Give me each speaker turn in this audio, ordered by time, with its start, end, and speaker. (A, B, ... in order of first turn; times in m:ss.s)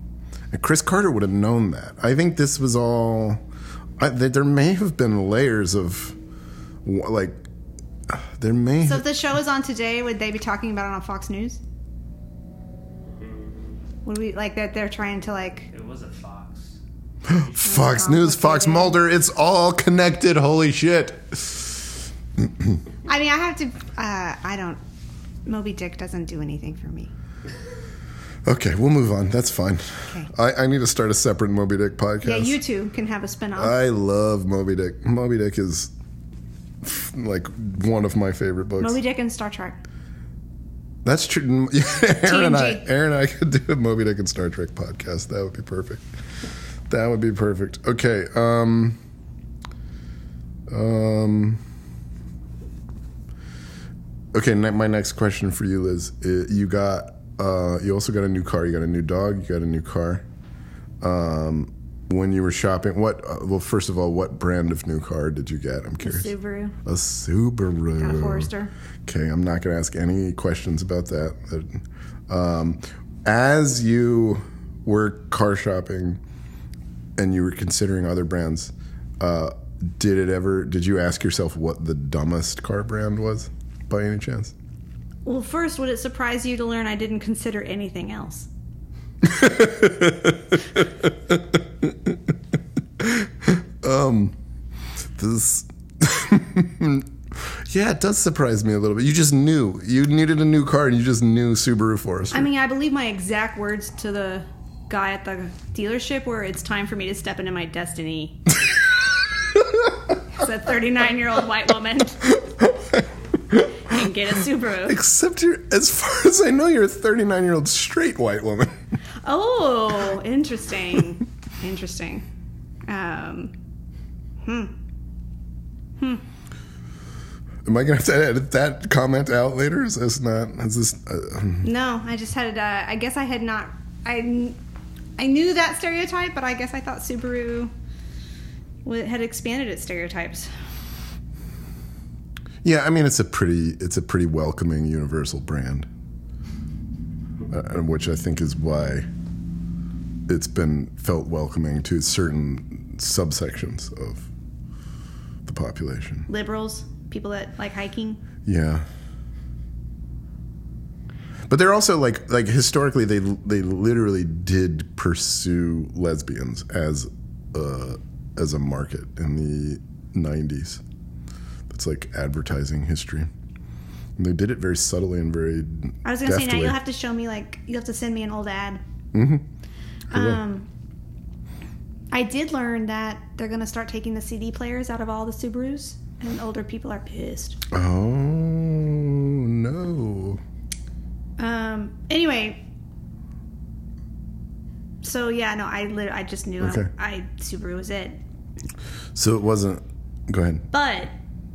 0:00.5-0:03.4 A
0:04.0-0:06.2 A
0:06.8-0:07.4 A
0:08.1-0:09.1 A
0:08.8-0:11.6 B
0:13.0-0:13.8 C
0:14.0-0:15.7 B
0:15.7-0:16.8 C
0:17.2-0:22.8 A
0:17.6-0:19.0 B
0:23.0-0:24.8 B
0:25.4-0:27.1 B
0:28.4-0:32.6 A
0:32.2-0:33.8 B
0:33.6-0:35.9 A
0:36.8-0:39.0 A
0:38.8-0:39.8 B
0:41.0-0:46.0 A
0:42.2-0:42.8 B
0:46.9-0:49.0 A
0:50.7-0:51.6 A
0:54.3-1:00.2 A
1:01.0-1:06.3 A
1:06.0-1:06.8 B
1:06.8-1:08.5 A
1:08.0-1:08.7 B
1:09.0-1:16.2 A
1:17.2-1:24.5 A
1:25.2-1:28.5 B
1:29.2-1:32.2 A
1:33.0-1:34.3 A
1:35.2-1:42.5 A
1:42.3-1:48.5 B
1:50.3-1:52.4 B
1:52.3-1:53.8 A
1:53.8-1:55.0 B
1:54.8-1:58.8 A
1:59.2-2:02.2 B
2:02.9-2:03.5 B
2:04.4-2:04.7 B
2:07.6-2:11.7 A
2:11.6-2:14.6 B
2:15.2-2:17.7 B
2:18.8-2:20.5 B
2:22.6-2:25.9 A
2:27.5-2:29.1 A
2:30.3-2:34.3 A
2:35.4-2:36.3 A
2:36.3-2:38.2 B
2:38.4-2:38.8 A
2:41.5-2:50.8 A
2:51.7-2:53.3 A
2:54.2-2:56.8 A
2:56.0-2:58.8 B
2:59.1-2:59.4 A
3:00.1-3:00.4 A
3:00.1-3:00.7 B
3:02.1-3:07.6 B
3:07.7-3:10.4 A
3:11.4-3:12.6 B
3:15.0-3:18.2 B
3:16.6-3:16.9 A
3:19.1-3:20.7 A
3:20.7-3:21.1 B